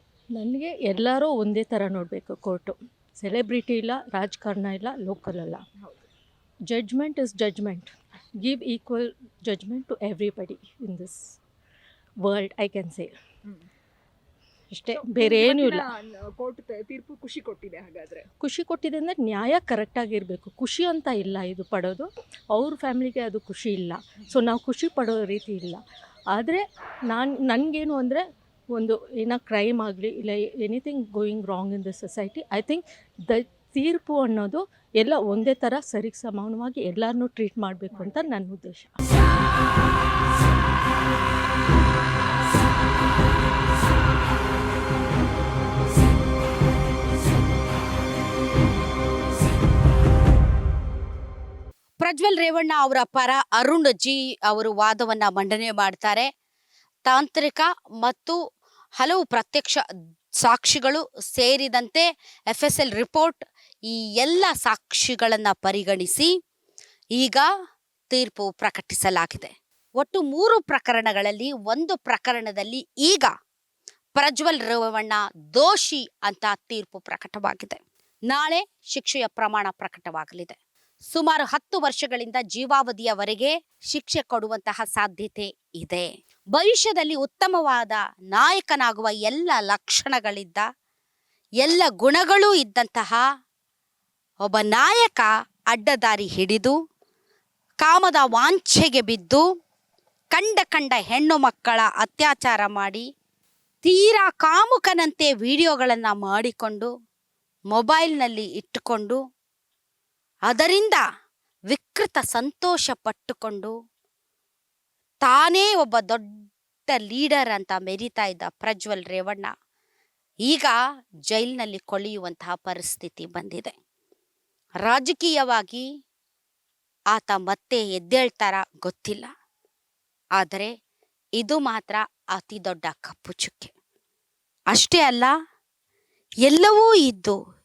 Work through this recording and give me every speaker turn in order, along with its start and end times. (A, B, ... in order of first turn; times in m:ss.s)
0:00.4-0:05.6 A
0:05.8-0:06.1 B
0:06.7-0:11.2 A
0:12.2-0:13.1 A
0:14.7-0:15.8 A
0:14.9-0:18.2 B
0:18.4-0:28.2 A
0:28.7-0:39.0 A
0:52.0-0:56.3 C
0:57.1-0:58.4 C
0:59.0-0:59.8 C
1:00.4-1:06.3 C
1:07.2-1:07.4 C
1:08.1-1:13.3 C
1:14.2-1:20.6 C
1:21.1-1:30.7 C
1:31.6-1:33.2 C
1:34.4-1:36.8 C
1:37.8-1:39.4 C
1:40.3-1:43.0 C
1:43.8-1:46.9 C
1:47.7-1:49.2 C
1:50.5-1:51.0 C
1:51.7-1:53.7 C
1:55.2-1:56.3 C
1:56.9-1:59.5 C
2:00.5-2:00.7 C
2:01.3-2:03.8 C
2:04.8-2:05.8 C
2:07.1-2:09.3 C
2:10.4-2:10.7 C
2:11.4-2:13.7 C
2:14.7-2:15.3 C
2:16.4-2:17.4 C